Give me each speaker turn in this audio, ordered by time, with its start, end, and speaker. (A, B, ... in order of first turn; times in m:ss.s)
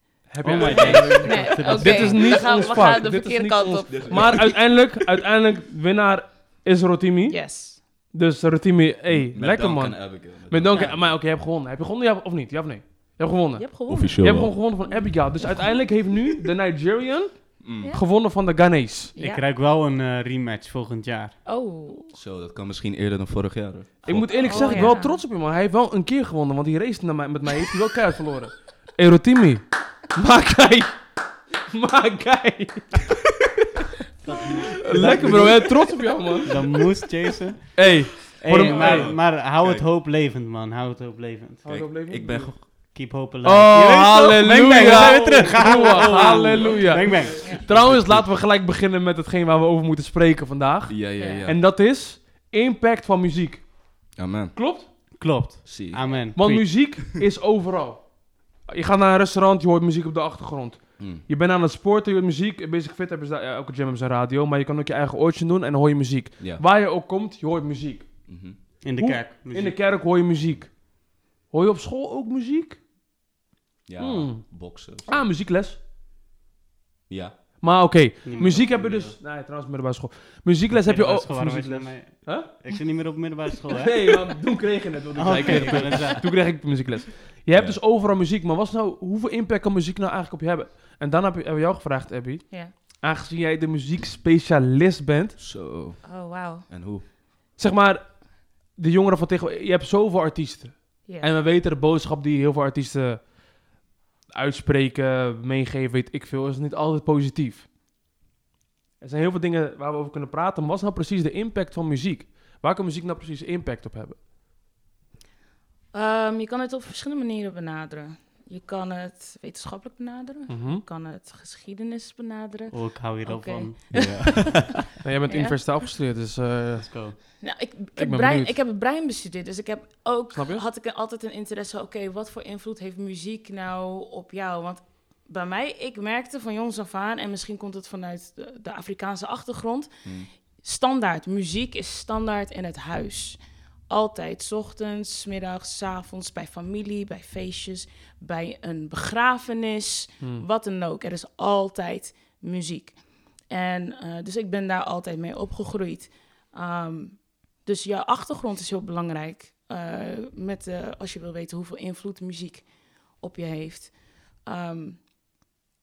0:00.3-0:19.1 A
0:00.4-0:02.4 B
0:00.4-0:02.1 C
0:00.9-0:04.4 D
0:03.9-0:04.4 C
0:07.3-0:07.8 D
0:09.1-0:11.2 C
0:10.7-0:11.0 B
0:13.6-0:15.9 D
0:13.9-0:14.5 C
0:17.6-0:17.9 C
0:19.2-0:19.4 D
0:19.2-0:21.4 B
0:21.4-0:22.1 D
0:22.1-0:24.9 C
0:24.0-0:31.0 A
0:24.4-0:25.2 D
0:31.7-0:33.0 A
0:34.2-0:35.8 B
0:34.8-0:36.7 A
0:35.1-0:35.4 C
0:36.4-0:37.9 B
0:37.7-0:39.1 A
0:38.4-0:41.6 B
0:38.6-0:39.9 C
0:41.6-0:53.9 A
0:41.6-0:42.7 C
0:42.8-0:47.7 B
0:44.7-0:48.3 C
0:50.9-0:51.6 C
0:51.2-0:51.4 D
0:54.1-0:54.6 C
0:54.5-0:54.9 A
0:55.2-0:56.7 B
0:55.6-0:56.0 C
0:56.3-1:08.3 A
1:01.0-1:01.2 C
1:06.4-1:06.6 C
1:08.3-1:08.6 C
1:08.8-1:09.8 B
1:09.0-1:12.8 A
1:13.8-1:15.2 C
1:14.0-1:15.8 A
1:17.1-1:17.4 C
1:17.6-1:22.5 A
1:18.2-1:19.2 B
1:20.8-1:24.2 B
1:23.8-1:35.4 A
1:25.2-1:26.2 B
1:27.5-1:27.8 C
1:35.4-1:37.0 C
1:36.0-1:36.6 D
1:37.6-1:43.4 A
1:41.0-1:41.3 D
1:44.3-1:47.7 A
1:49.0-1:54.2 A
1:55.9-2:04.6 D
2:00.5-2:00.8 A
2:02.7-2:04.5 B
2:03.9-2:04.8 C
2:05.0-2:07.4 A
2:05.3-2:05.8 D
2:06.8-2:07.2 B
2:07.4-2:45.0 D
2:08.0-2:08.6 A
2:10.3-2:10.6 A
2:20.0-2:20.3 C